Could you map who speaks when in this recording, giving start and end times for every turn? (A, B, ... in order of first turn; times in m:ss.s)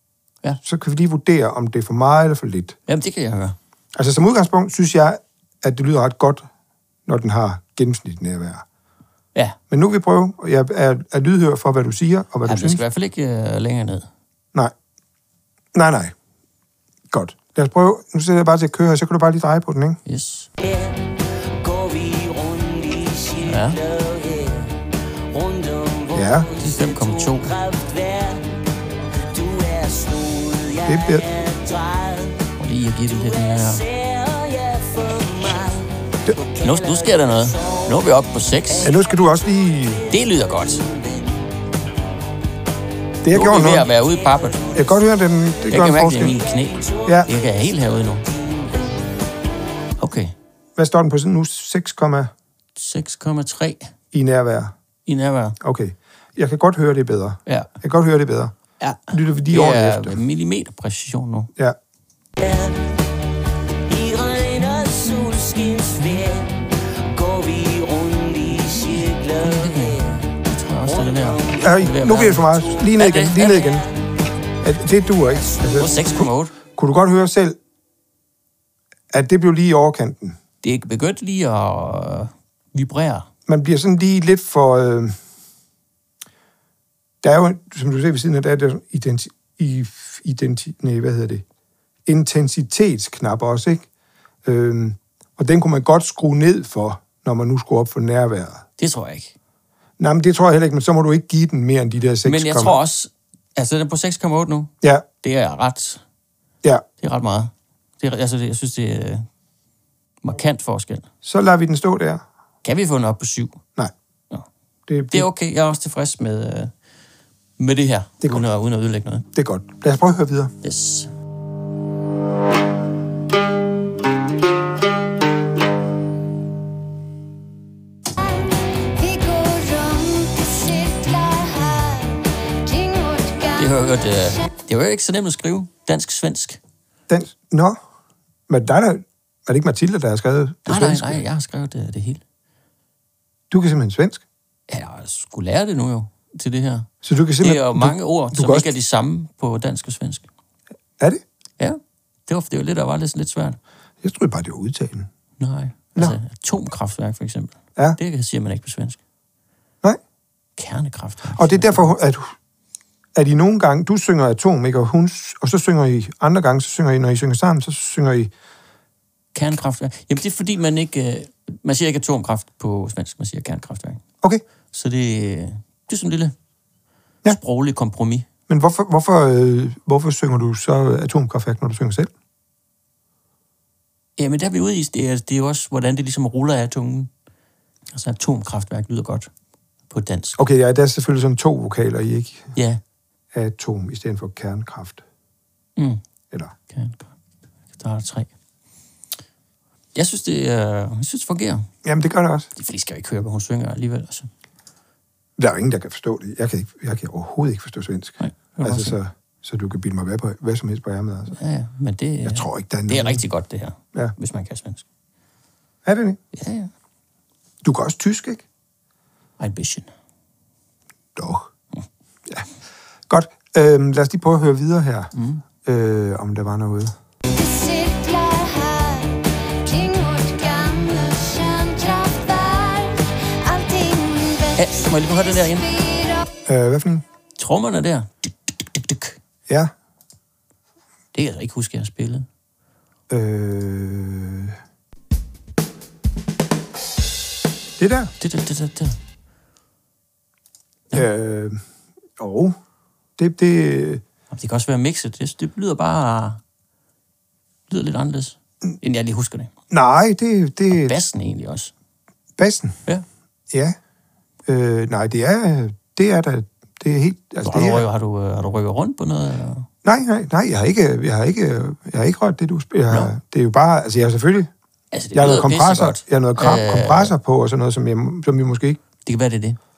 0:00.6-0:02.8 A
0:02.9-0:03.6 B
0:03.9-0:06.5 A
0:07.0-0:08.6 A
0:09.7-0:12.8 A
0:12.4-0:14.1 B
0:15.7-0:16.1 A
0:17.1-0:20.0 A
0:20.0-0:20.5 B
0:20.6-0:28.6 C
0:23.4-0:23.8 B
0:26.1-0:26.5 A
0:26.6-0:27.5 B
0:29.2-0:32.4 C
0:30.8-0:31.2 A
0:32.6-0:33.8 B
0:33.3-0:37.8 C
0:36.6-0:38.9 B
0:38.8-0:40.0 A
0:40.1-0:40.8 B
0:40.8-0:41.2 C
0:43.2-0:43.9 A
0:43.3-0:44.6 B
0:44.4-0:44.9 C
0:44.7-0:46.4 A
0:45.7-0:48.3 B
0:46.3-0:47.5 C
0:47.0-0:47.3 A
0:48.3-0:48.6 C
0:50.0-0:50.3 B
0:50.8-0:52.3 A
0:52.8-0:53.9 B
0:54.1-0:54.7 A
0:55.0-0:55.6 B
0:55.6-0:58.5 A
0:58.8-1:01.5 B
0:59.1-1:00.2 A
1:02.4-1:02.8 C
1:03.8-1:10.0 C
1:08.8-1:13.7 B
1:10.9-1:11.7 C
1:11.6-1:13.9 A
1:13.7-1:13.9 C
1:14.6-1:17.6 A
1:15.7-1:16.5 B
1:19.1-1:20.4 A
1:20.6-1:23.3 B
1:23.4-1:25.2 A
1:27.2-1:31.4 A
1:32.0-1:33.8 A
1:34.4-1:38.6 A
1:38.8-1:39.3 B
1:40.0-1:42.8 A
1:42.2-1:44.7 B
1:45.2-1:46.0 B
1:47.0-1:49.2 B
1:50.2-1:51.1 B
1:51.2-1:52.2 A
1:52.6-1:53.6 B
1:54.9-1:55.3 A
1:55.1-1:56.7 B
1:57.6-1:59.2 B
1:59.3-2:00.5 A
2:00.6-2:01.1 B
2:08.8-2:13.6 D
2:13.5-2:16.6 B
2:17.1-2:17.8 A
2:18.5-2:21.2 A
2:20.6-2:22.2 B
2:23.5-2:24.2 A
2:24.7-2:30.3 B
2:27.0-2:28.7 A
2:31.6-2:33.6 B
2:34.0-2:35.1 A
2:35.4-2:39.0 B
2:40.6-2:41.9 B
2:41.4-2:42.3 A
2:43.1-2:48.3 A
2:49.3-2:54.0 B
2:54.7-2:56.3 B
2:57.2-2:58.2 B
2:58.5-3:02.1 A
3:04.2-3:07.1 B
3:07.9-3:09.3 B
3:09.9-3:10.4 B
3:10.4-3:12.5 A
3:12.5-3:12.8 B
3:13.3-3:15.0 A
3:15.8-3:16.0 B
3:16.7-3:17.1 B
3:17.7-3:18.3 B
3:19.9-3:21.7 B
3:21.8-3:22.5 A
3:22.6-3:24.3 B
3:25.4-3:31.4 A
3:28.2-3:29.0 B
3:31.3-3:34.8 B
3:32.2-3:33.2 A
3:35.8-3:36.2 A
3:36.3-3:36.7 B
3:37.6-3:38.4 A
3:39.4-3:39.9 B
3:41.2-3:41.5 A
3:43.1-3:45.1 A
3:45.1-3:45.4 B
3:45.6-3:46.9 A
3:47.3-3:54.6 D
3:54.5-3:56.0 B
3:56.5-3:57.0 A
3:57.4-3:58.1 B
3:58.6-3:59.2 B
4:01.1-4:02.3 B
4:03.1-4:04.6 A
4:07.8-4:08.1 A
4:08.2-4:09.0 B
4:10.9-4:11.6 A
4:12.2-4:12.5 A
4:13.2-4:14.0 A
4:14.3-4:16.4 B
4:17.7-4:19.5 B
4:19.7-4:21.0 A
4:20.7-4:21.7 B
4:22.4-4:22.8 A
4:23.5-4:23.8 A
4:24.4-4:27.9 A
4:27.4-4:29.7 B
4:29.8-4:34.5 A
4:34.9-4:37.1 B
4:35.1-4:38.8 A
4:39.0-4:39.6 B